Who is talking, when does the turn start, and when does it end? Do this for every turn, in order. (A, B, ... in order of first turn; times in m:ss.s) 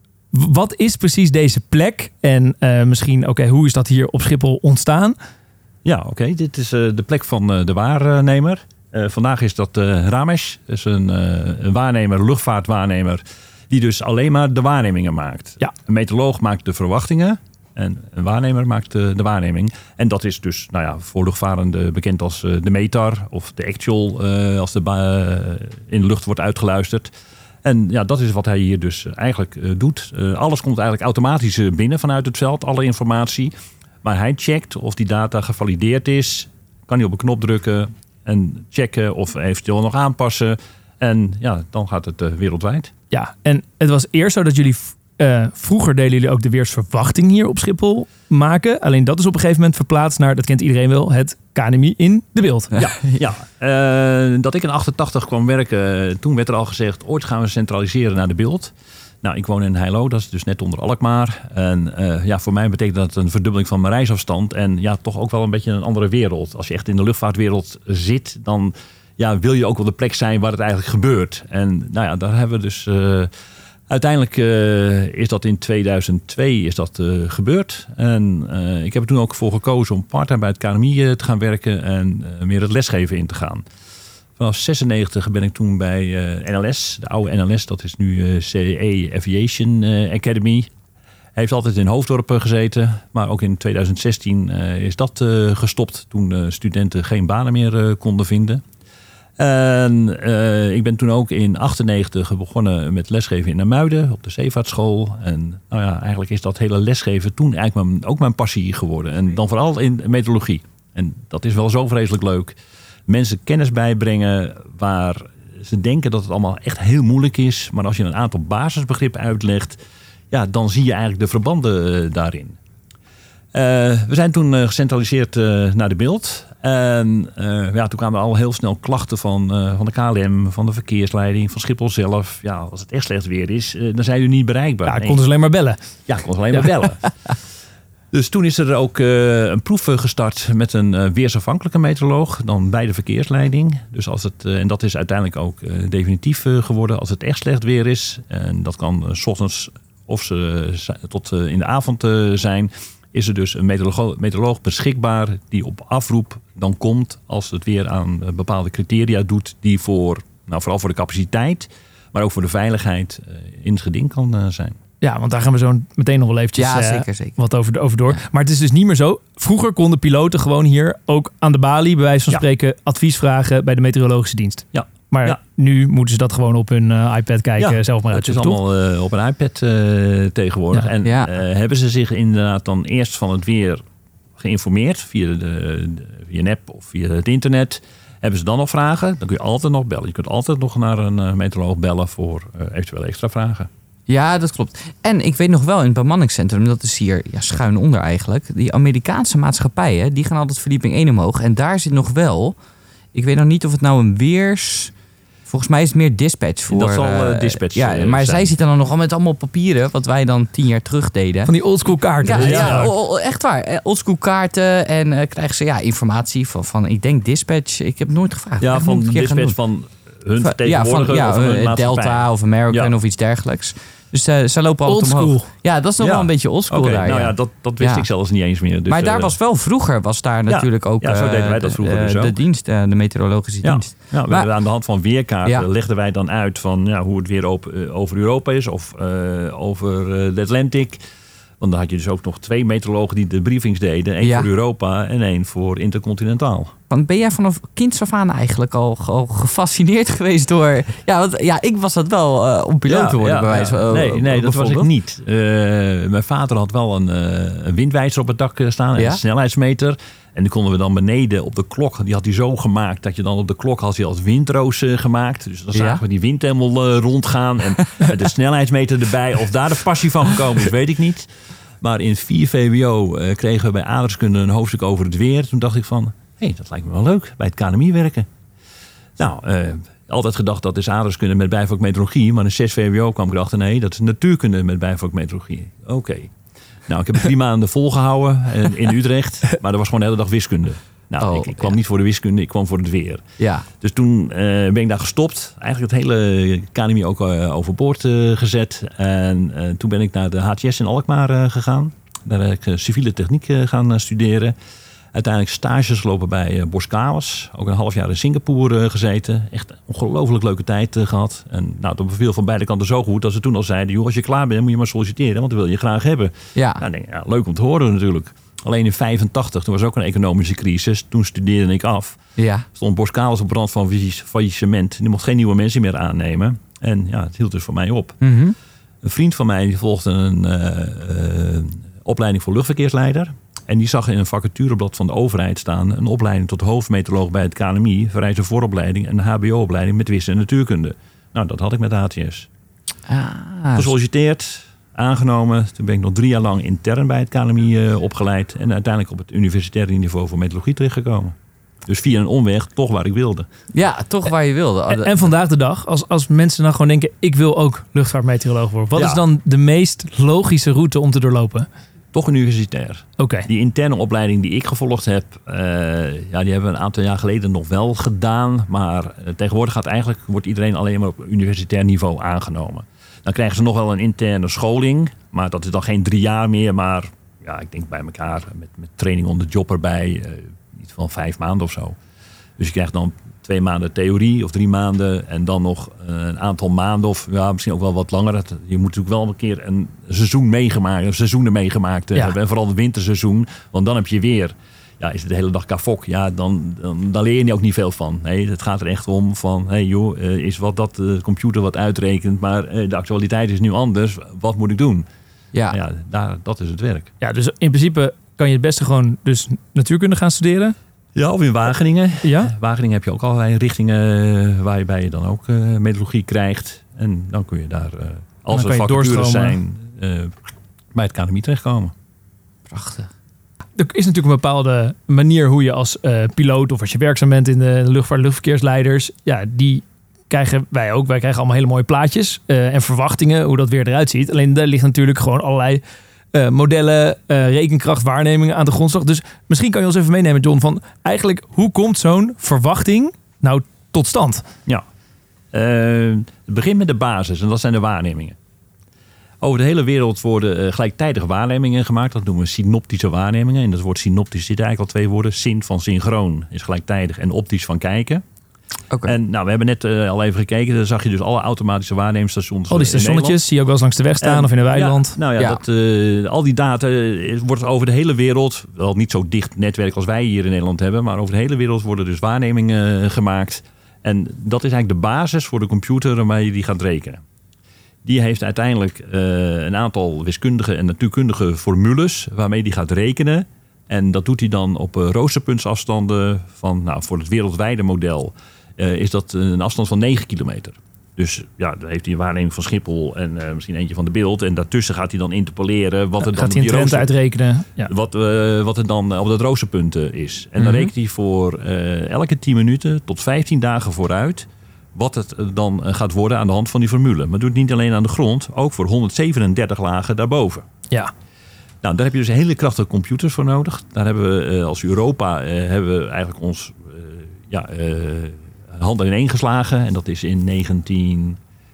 0:00.3-0:05.2 A
0:05.8-0:27.1 B
0:27.6-0:33.5 B
0:34.0-0:42.9 B
0:43.1-0:52.9 A
0:52.8-1:13.3 B
1:13.9-1:23.6 B
1:24.4-1:30.7 B
1:31.4-1:38.6 B
1:39.4-1:52.6 B
1:53.1-1:59.8 B
2:00.3-2:02.6 B
2:03.5-2:15.2 B
2:14.8-2:15.8 A
2:16.1-2:17.0 B
2:18.1-2:44.8 B
2:45.0-2:58.6 A
2:46.6-2:47.4 C
2:54.7-2:55.4 B
2:57.6-3:03.8 B
3:01.0-3:01.3 C
3:04.4-3:13.7 B
3:14.1-3:22.6 C
3:23.1-3:24.9 C
3:25.5-3:31.5 C
3:26.7-3:28.5 B
3:31.5-3:32.9 A
3:32.2-3:39.6 C
3:32.4-3:32.9 B
3:38.6-3:42.9 B
3:40.4-3:48.1 C
3:44.9-3:45.5 A
3:46.0-3:49.3 B
3:48.9-3:54.5 C
3:50.5-3:52.4 B
3:53.6-4:01.0 B
4:01.6-4:06.7 B
4:04.2-4:04.5 C
4:06.9-4:14.9 C
4:12.9-4:31.3 B
4:25.7-4:26.0 C
4:31.8-4:38.3 B
4:39.2-4:46.3 B
4:46.9-4:53.2 B
4:51.2-4:51.8 C
4:53.4-4:53.7 C
4:53.8-5:04.6 B
5:05.1-5:22.2 B
5:16.6-5:16.8 C
5:22.4-5:22.7 C
5:22.7-5:28.2 B
5:28.2-5:28.6 C
5:29.0-5:42.5 B
5:43.1-5:43.9 C
5:43.8-5:51.4 B
5:51.9-5:53.5 B
5:53.7-5:55.3 C
5:54.9-6:01.7 A
5:59.0-5:59.2 B
6:02.1-6:22.0 B
6:03.2-6:03.5 A
6:22.6-6:45.1 B
6:45.7-6:47.1 B
6:47.2-6:50.8 A
6:51.2-7:00.4 B
6:52.2-6:52.5 A
6:58.5-6:59.6 A
7:00.9-7:01.9 B
7:02.7-7:03.1 C
7:03.8-7:15.8 A
7:16.3-7:24.5 A
7:25.5-7:28.4 B
7:29.4-7:38.2 B
7:39.0-7:43.4 B
7:42.7-7:45.2 A
7:44.2-7:57.2 B
7:58.0-8:17.1 B
8:16.2-8:17.9 A
8:17.8-8:30.7 B
8:20.6-8:20.9 A
8:31.8-8:41.4 B